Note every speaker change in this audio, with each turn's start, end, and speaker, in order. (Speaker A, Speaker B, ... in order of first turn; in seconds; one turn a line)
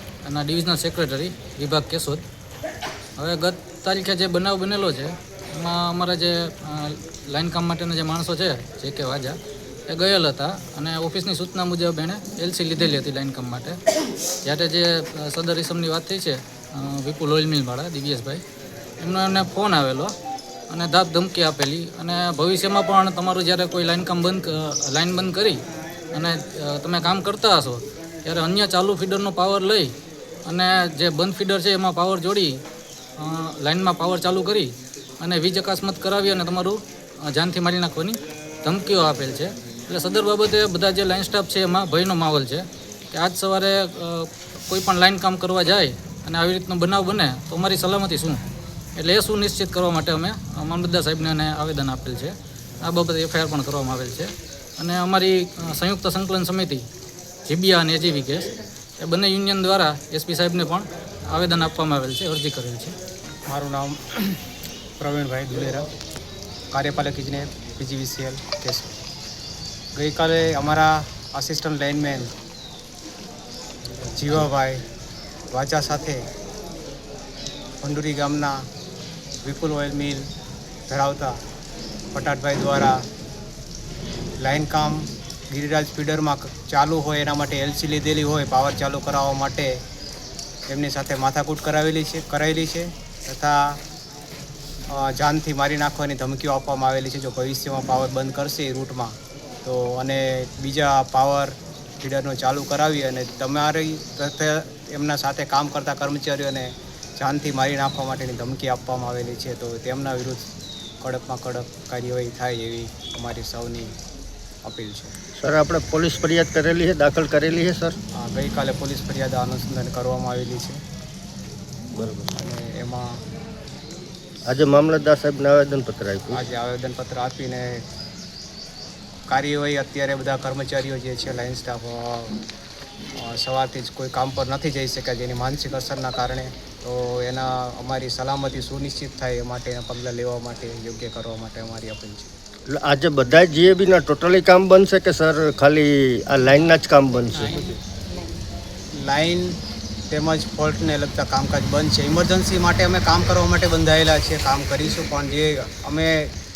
Speaker A: 0.2-2.2
Speaker A: 3.2-13.8
Speaker A: 14.4-18.4
Speaker A: 19.0-20.1
Speaker A: 20.7-25.6
Speaker A: 26.1-29.9
Speaker A: 30.4-32.5
Speaker A: 33.2-48.4
Speaker A: 49.0-56.8
Speaker A: 57.5-58.5
Speaker A: 59.0-62.9
Speaker B: 63.5-64.4
Speaker B: 65.0-65.8
Speaker B: 66.7-68.9
Speaker B: 70.0-72.3
Speaker B: 74.1-74.8
Speaker B: 75.5-76.2
Speaker B: 77.8-78.5
Speaker B: 79.4-80.2
Speaker B: 80.9-81.3
Speaker B: 82.1-83.0
Speaker B: 84.4-89.7
Speaker B: 90.7-93.8
Speaker B: 94.9-99.1
Speaker B: 99.6-110.4
Speaker B: 111.0-113.9
Speaker B: 114.6-115.1
Speaker C: 115.4-118.0
Speaker B: 118.2-120.8
Speaker C: 122.0-122.3
Speaker B: 122.4-123.1
Speaker C: 124.5-126.4
Speaker B: 126.3-127.8
Speaker B: 129.3-132.3
Speaker B: 133.2-142.3
Speaker C: 142.7-147.7
Speaker B: 149.0-149.5
Speaker B: 150.1-156.3